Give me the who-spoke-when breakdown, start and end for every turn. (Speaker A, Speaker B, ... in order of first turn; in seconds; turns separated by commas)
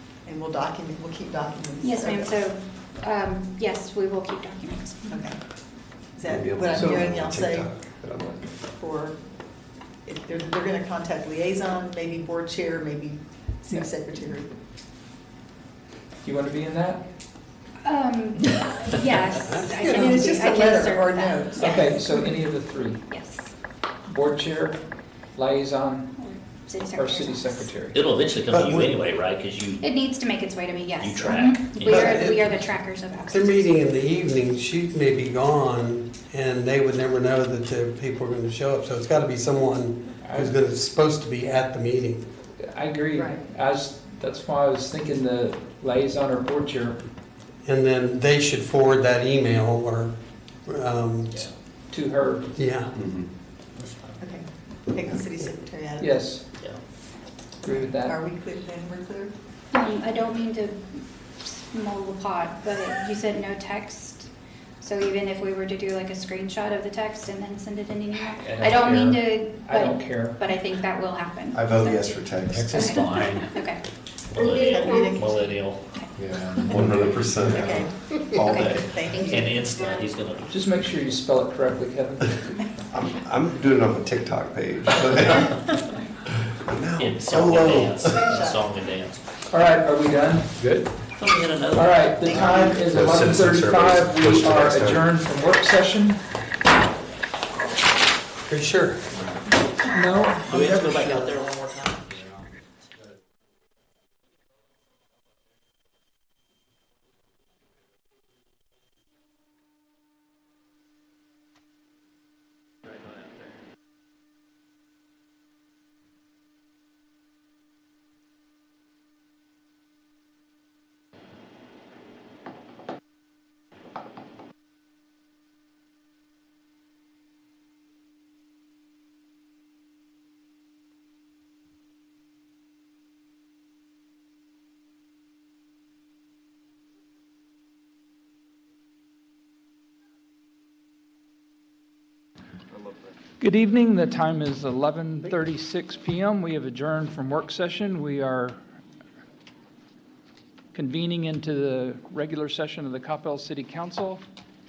Speaker A: 0.2-2.4, Speaker B: 1.8-5.3, Speaker A: 5.1-5.4, Speaker A: 6.1-7.7, Speaker C: 6.2-8.5, Speaker D: 6.8-7.0, Speaker A: 8.6-9.2, Speaker A: 10.0-14.5, Speaker D: 16.2-17.0, Speaker B: 17.8-21.9, Speaker E: 19.4-20.0, Speaker A: 19.7-22.0, Speaker D: 21.6-23.0, Speaker B: 23.1-23.5, Speaker D: 24.1-24.8, Speaker D: 25.3-26.1, Speaker B: 26.1-27.7, Speaker D: 26.9-28.0, Speaker F: 27.9-29.9, Speaker C: 28.5-28.9, Speaker B: 29.8-33.9, Speaker F: 31.0-32.3, Speaker E: 31.8-32.6, Speaker E: 33.2-42.2, Speaker D: 40.2-40.5, Speaker D: 42.6-47.0, Speaker A: 43.1-43.4, Speaker E: 47.6-51.5, Speaker D: 51.9-52.5, Speaker E: 52.5-52.9, Speaker F: 53.8-54.1, Speaker A: 54.2-56.3, Speaker D: 56.0-56.4, Speaker D: 57.6-58.2, Speaker A: 57.7-59.3, Speaker B: 59.7-60.7, Speaker B: 61.4-64.3, Speaker B: 64.8-73.8, Speaker D: 68.4-70.4, Speaker C: 71.5-73.0, Speaker F: 72.8-73.5, Speaker F: 74.3-75.8, Speaker A: 74.3-75.7, Speaker B: 74.4-75.1, Speaker B: 75.9-76.8, Speaker C: 76.2-79.3, Speaker A: 77.5-77.9, Speaker B: 78.3-80.0, Speaker A: 78.8-79.7, Speaker F: 79.2-81.1, Speaker D: 80.5-82.7, Speaker C: 82.9-85.8, Speaker C: 86.5-88.3, Speaker F: 87.0-89.2, Speaker A: 87.8-88.7, Speaker D: 89.5-90.7, Speaker F: 91.1-92.7, Speaker D: 91.7-96.2, Speaker C: 92.3-95.0, Speaker E: 98.5-99.2, Speaker D: 99.8-100.8, Speaker F: 100.5-102.4, Speaker E: 100.5-101.3, Speaker D: 143.4-148.6, Speaker D: 150.7-154.2